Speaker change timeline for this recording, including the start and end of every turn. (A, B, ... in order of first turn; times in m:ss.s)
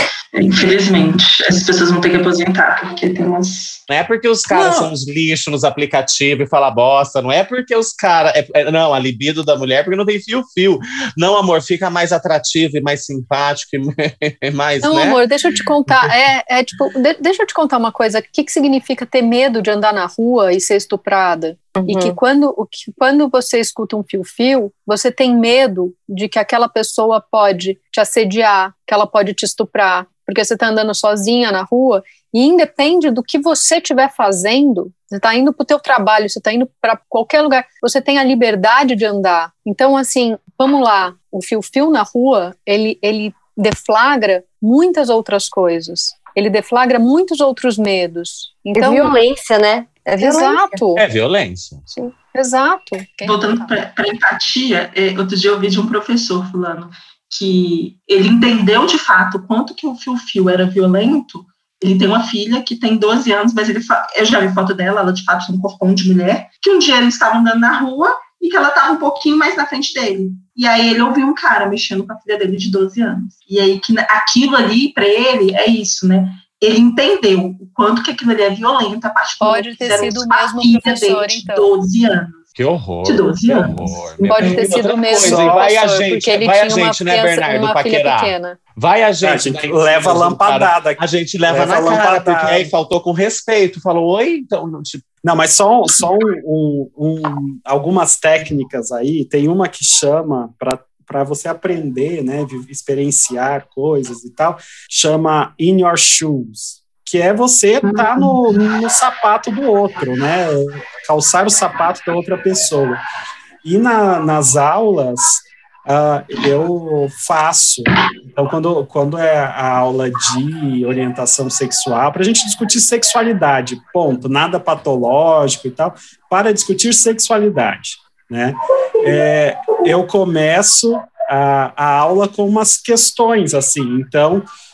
0:00.3-0:03.8 A
0:03.9-0:15.2 B
0:04.5-0:04.9 C
0:14.8-0:49.1 D
0:21.8-0:22.2 E
0:48.7-0:50.8 E
0:50.2-0:51.0 D
0:51.0-0:51.9 B
0:52.3-0:53.7 D
0:53.2-1:22.5 A
1:19.4-1:21.7 D
1:22.6-1:35.0 B
1:23.0-1:24.7 A
1:24.2-1:28.6 D
1:25.2-1:25.6 C
1:29.2-1:32.7 C
1:35.2-1:53.0 C
1:47.8-1:48.5 A
1:53.6-2:14.4 C